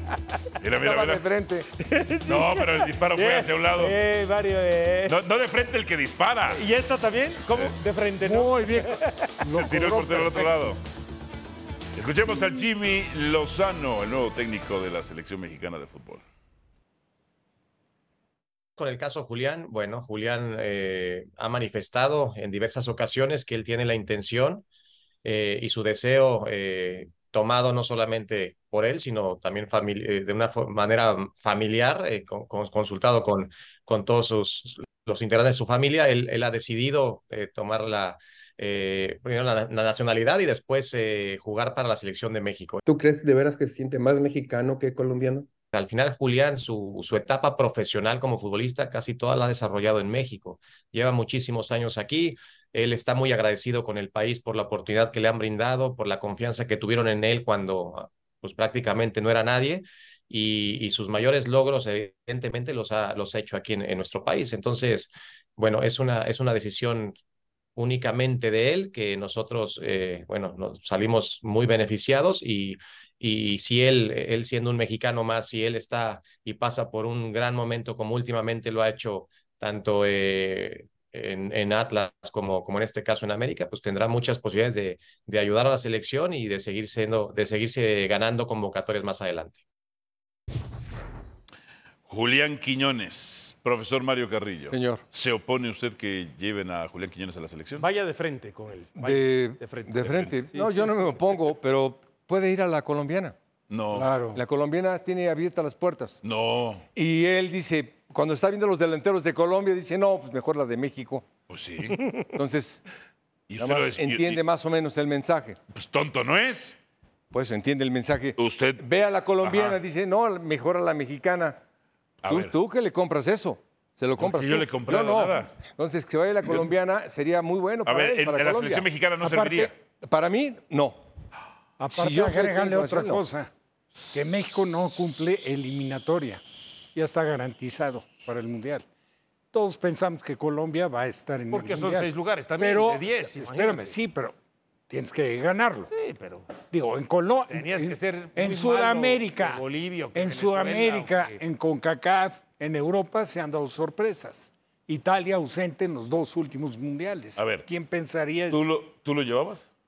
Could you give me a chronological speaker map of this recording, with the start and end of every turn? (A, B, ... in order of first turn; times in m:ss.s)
0:00.6-0:01.2 A
0:00.8-0:01.7 B
0:01.8-0:05.2 C
0:02.2-0:04.0 A
0:05.1-0:06.6 A
0:06.5-0:09.3 C
0:08.2-0:10.5 D
0:09.4-0:10.8 A
0:11.9-0:16.2 A
0:18.8-0:24.6 E
0:25.2-0:42.8 E
0:42.8-0:45.5 F
0:45.7-1:07.2 E
1:07.8-1:29.6 E
1:32.1-1:37.8 A
1:34.7-1:35.0 B
1:37.8-1:40.9 C
1:39.0-1:43.4 B
1:43.7-1:44.1 A
1:43.9-1:44.4 D
1:44.3-1:46.2 B
1:46.2-1:46.8 A
1:46.9-1:51.3 B
1:51.5-1:52.3 A
1:52.3-1:52.8 B
1:53.5-1:54.4 A
1:53.6-1:55.6 B
1:55.7-1:56.8 A
1:57.3-2:01.6 B
1:58.4-1:58.8 A
1:59.4-1:59.8 A
2:02.2-2:02.5 A
2:02.2-2:08.9 B
2:04.2-2:05.5 A
2:07.8-2:09.8 A
2:09.2-2:09.7 D
2:10.0-2:11.0 B
2:11.8-2:13.5 D
2:11.9-2:13.2 B
2:14.1-2:16.4 D
2:16.9-2:18.8 D
2:19.5-2:24.3 D
2:21.5-2:23.9 C
2:24.9-2:25.9 D
2:25.9-2:26.5 C
2:26.7-2:29.6 D
2:27.5-2:31.4 C
2:30.1-2:38.7 D
2:37.4-2:37.6 A
2:38.5-2:39.7 A